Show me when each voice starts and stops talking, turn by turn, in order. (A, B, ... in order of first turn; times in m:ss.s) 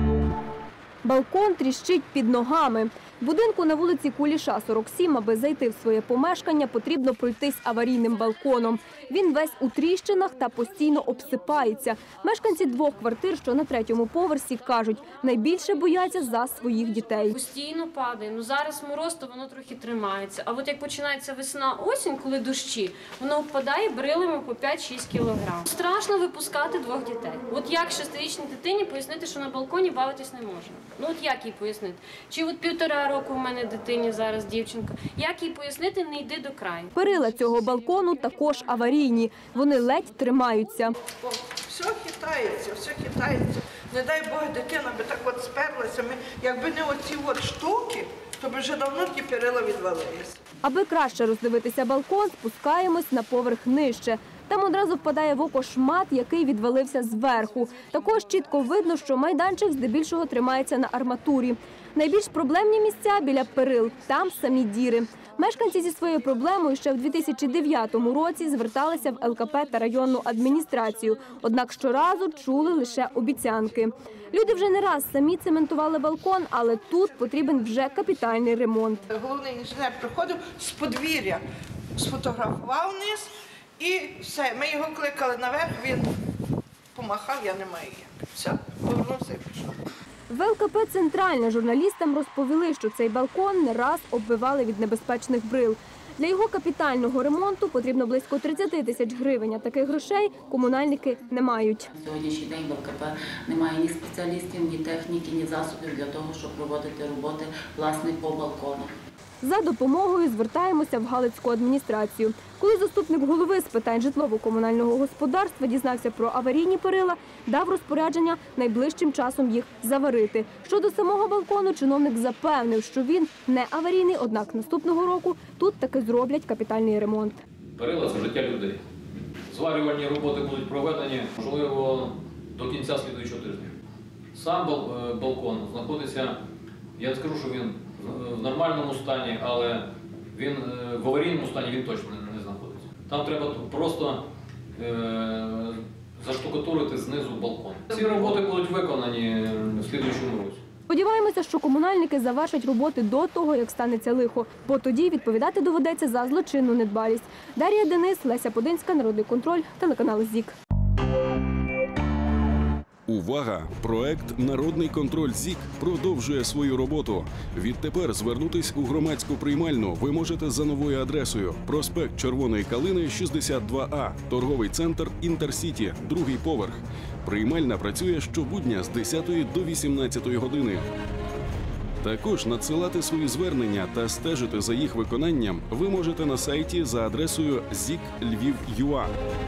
0:01.0-0:17.4 A
0:17.3-0:36.9 B
0:37.0-0:41.0 A
0:41.2-0:50.4 C
0:50.6-1:19.0 A
1:19.1-1:21.4 C
1:22.0-1:26.1 C
1:27.0-1:29.7 C
1:30.3-1:41.9 A
1:41.9-1:48.9 D
1:49.4-2:07.4 A
2:07.8-2:08.8 E
2:09.5-2:13.7 E
2:14.4-2:16.4 E
2:17.0-2:24.2 E
2:24.8-2:30.6 E
2:30.9-2:40.6 A
2:43.1-3:00.9 F
3:02.0-3:09.1 F